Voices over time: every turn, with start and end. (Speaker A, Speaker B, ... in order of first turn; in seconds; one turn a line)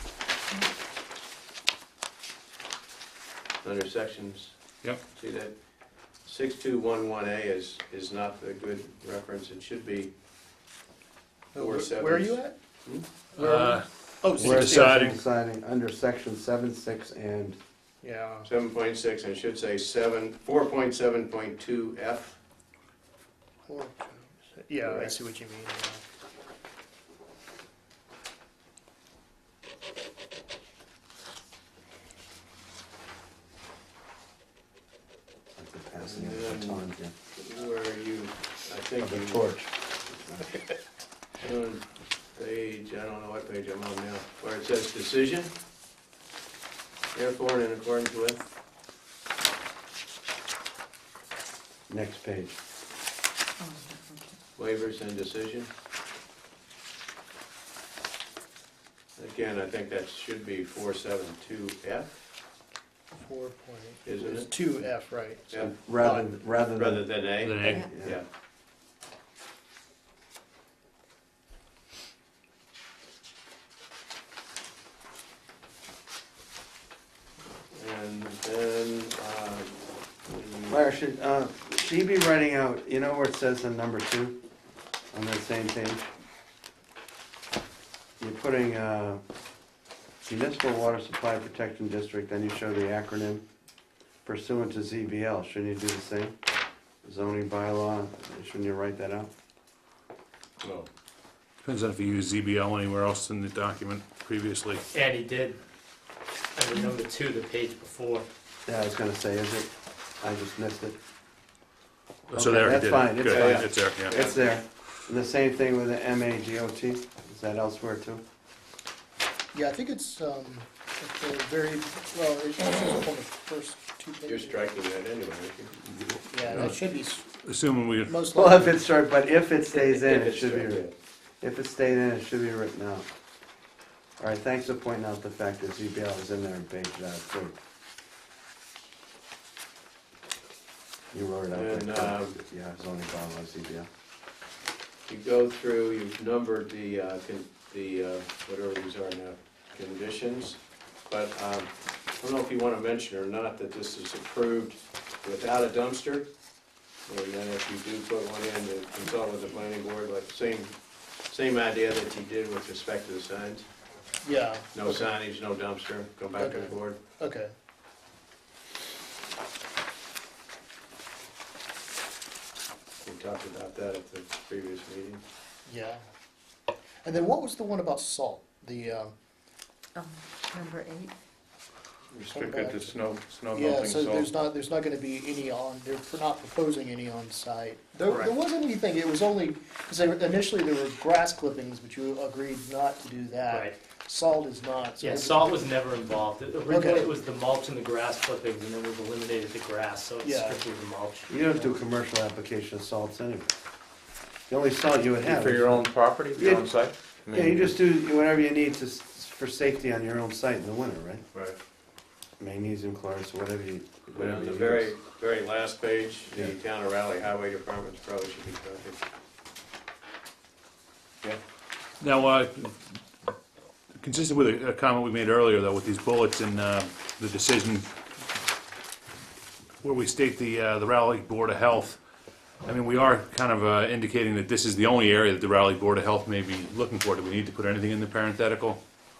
Speaker A: 3.6-4.6
Speaker A: 5.1-5.6
Speaker A: 6.2-10.1
Speaker B: 11.5-12.6
Speaker A: 11.6-13.1
Speaker B: 13.3-14.8
Speaker C: 13.4-15.2
Speaker D: 14.4-17.6
Speaker B: 18.0-18.5
Speaker A: 18.4-22.4
Speaker B: 23.6-26.0
Speaker A: 24.8-25.1
Speaker D: 35.5-37.1
Speaker A: 36.0-39.4
Speaker D: 39.0-40.5
Speaker A: 41.4-45.5
Speaker A: 47.1-48.4
Speaker D: 51.9-52.6
Speaker E: 53.6-54.4
Speaker A: 54.5-55.7
Speaker A: 59.2-62.1
Speaker B: 63.1-66.3
Speaker A: 64.0-64.5
Speaker D: 65.6-68.2
Speaker A: 66.8-68.2
Speaker C: 67.4-67.9
Speaker A: 77.7-80.8
Speaker D: 80.7-84.4
Speaker D: 85.1-86.1
Speaker D: 88.2-89.2
Speaker D: 90.2-93.4
Speaker D: 94.2-96.3
Speaker D: 97.0-99.3
Speaker A: 100.6-100.9
Speaker C: 101.6-104.8
Speaker F: 104.9-105.6
Speaker F: 106.5-108.3
Speaker D: 108.7-109.7
Speaker D: 110.2-111.0
Speaker C: 112.3-114.2
Speaker D: 112.3-118.2
Speaker A: 113.2-114.5
Speaker B: 119.5-124.6
Speaker A: 124.2-125.7
Speaker C: 125.9-126.8
Speaker B: 126.3-128.8
Speaker C: 127.4-128.1
Speaker D: 128.3-130.9
Speaker A: 129.7-130.9
Speaker D: 131.4-133.1
Speaker D: 134.2-137.5
Speaker D: 141.1-143.9
Speaker A: 141.5-142.4
Speaker A: 145.1-156.3
Speaker A: 157.1-160.7
Speaker A: 161.3-163.7
Speaker B: 164.2-165.1
Speaker A: 164.7-167.0
Speaker B: 166.3-167.5
Speaker A: 173.0-175.2
Speaker B: 175.7-176.0
Speaker B: 177.0-179.1
Speaker E: 179.9-181.1
Speaker G: 182.1-184.3
Speaker B: 182.3-195.8
Speaker F: 188.1-188.3
Speaker F: 193.5-193.7
Speaker F: 195.0-201.6
Speaker B: 196.6-197.2
Speaker B: 200.2-200.7
Speaker D: 201.3-203.5
Speaker D: 204.5-206.7
Speaker G: 205.2-207.8
Speaker D: 207.3-211.2
Speaker D: 212.4-214.9
Speaker A: 214.2-219.0
Speaker C: 222.0-222.7
Speaker C: 224.0-227.9
Speaker C: 229.8-232.0
Speaker C: 232.6-238.8